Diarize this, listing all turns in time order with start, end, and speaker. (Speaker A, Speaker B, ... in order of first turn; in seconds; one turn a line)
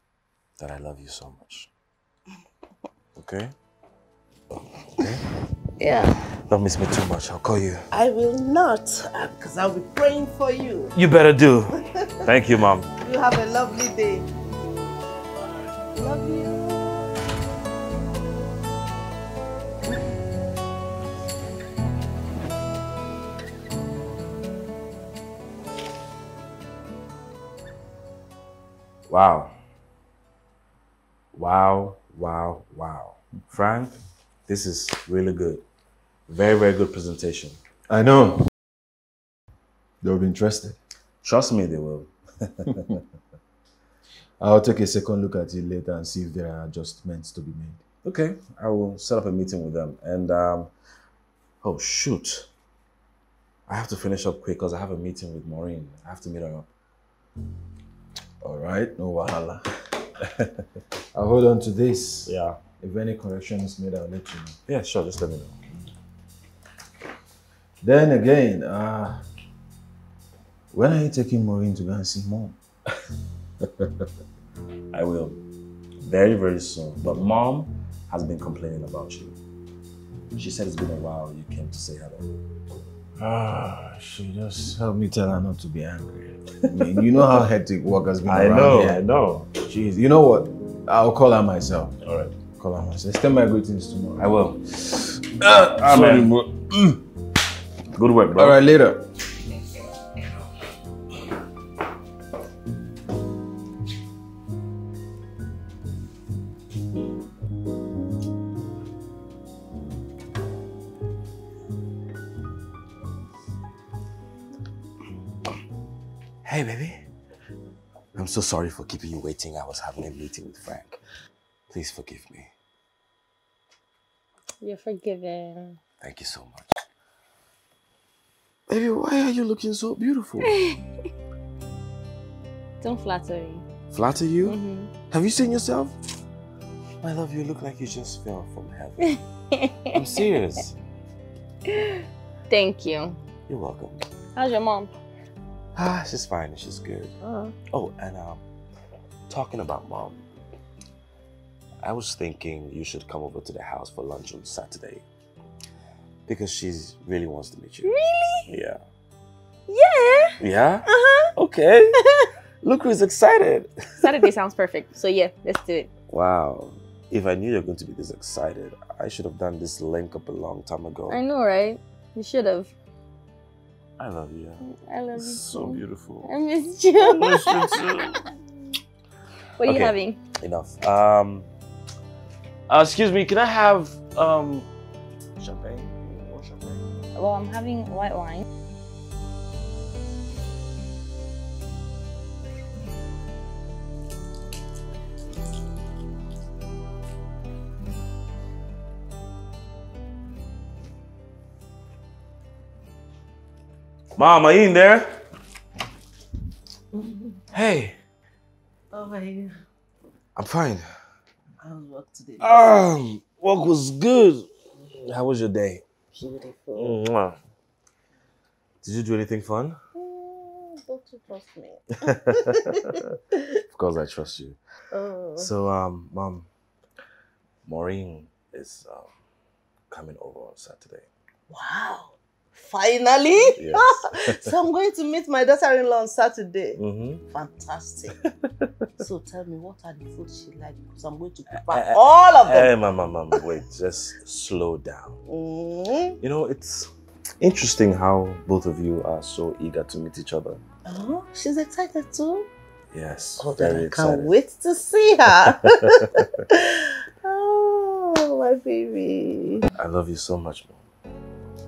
Speaker A: 0.6-1.7
Speaker A: 3.1-3.5
Speaker A: 5.0-5.2
Speaker B: 5.8-6.2
Speaker A: 6.4-7.9
Speaker B: 7.9-10.9
Speaker A: 10.9-12.9
Speaker B: 13.0-14.3
Speaker B: 15.9-17.1
Speaker A: 29.1-29.5
Speaker A: 31.3-35.6
Speaker A: 36.3-37.6
Speaker C: 37.9-38.5
Speaker C: 40.0-40.8
Speaker A: 41.2-43.0
Speaker C: 44.4-47.8
Speaker A: 48.0-50.7
Speaker A: 51.6-52.5
Speaker A: 53.7-56.7
Speaker C: 58.4-59.6
Speaker C: 61.1-64.6
Speaker A: 62.2-62.6
Speaker A: 64.7-65.6
Speaker C: 67.8-69.2
Speaker C: 70.7-72.5
Speaker A: 73.6-74.0
Speaker A: 74.9-75.4
Speaker A: 76.0-79.4
Speaker A: 80.3-82.3
Speaker C: 83.2-89.0
Speaker A: 88.3-89.5
Speaker C: 89.6-91.9
Speaker A: 92.0-92.4
Speaker C: 92.5-94.3
Speaker A: 94.2-94.7
Speaker C: 94.9-97.0
Speaker A: 95.8-96.3
Speaker A: 97.9-98.6
Speaker C: 98.3-99.1
Speaker A: 116.4-117.0
Speaker A: 118.1-121.0
Speaker A: 121.7-122.5
Speaker D: 124.6-125.8
Speaker A: 126.0-126.7
Speaker A: 128.7-130.6
Speaker D: 132.8-133.7
Speaker A: 133.9-134.6
Speaker D: 134.4-134.9
Speaker A: 135.1-135.9
Speaker A: 137.0-139.2
Speaker D: 139.6-140.0
Speaker A: 139.9-140.8
Speaker D: 141.8-143.2
Speaker A: 143.5-144.0
Speaker D: 144.3-144.9
Speaker A: 145.7-147.1
Speaker A: 147.7-148.4
Speaker A: 149.3-150.2
Speaker A: 151.8-155.0
Speaker A: 156.2-157.9
Speaker D: 157.8-158.5
Speaker A: 158.5-158.8
Speaker D: 159.7-161.3
Speaker A: 160.4-162.0
Speaker A: 162.6-164.1
Speaker D: 164.0-165.9
Speaker A: 166.1-171.2
Speaker D: 171.1-172.7
Speaker A: 174.0-176.3
Speaker D: 174.6-177.8
Speaker A: 177.0-178.3
Speaker D: 179.6-180.2
Speaker A: 179.6-181.5
Speaker A: 182.7-184.7
Speaker A: 185.4-186.8
Speaker D: 187.1-188.4
Speaker A: 204.2-205.2
Speaker A: 207.5-207.9
Speaker B: 208.9-209.6
Speaker A: 210.3-210.9
Speaker B: 211.6-212.7
Speaker A: 212.4-215.8
Speaker B: 216.1-217.0
Speaker A: 216.7-217.4
Speaker A: 218.8-219.8
Speaker B: 219.9-223.0
Speaker A: 222.0-222.5
Speaker A: 223.7-224.6
Speaker B: 224.9-225.5
Speaker A: 225.4-226.5
Speaker A: 227.6-229.1
Speaker A: 229.9-231.1
Speaker B: 231.5-238.2
Speaker A: 233.6-234.5
Speaker A: 236.8-237.2
Speaker B: 239.0-243.6
Speaker A: 241.6-245.2
Speaker B: 245.3-246.2
Speaker A: 246.2-246.9
Speaker A: 247.4-250.6
Speaker B: 250.8-252.5
Speaker A: 252.9-254.3
Speaker B: 253.4-256.5
Speaker A: 255.4-256.2
Speaker B: 257.2-259.7
Speaker A: 259.8-260.8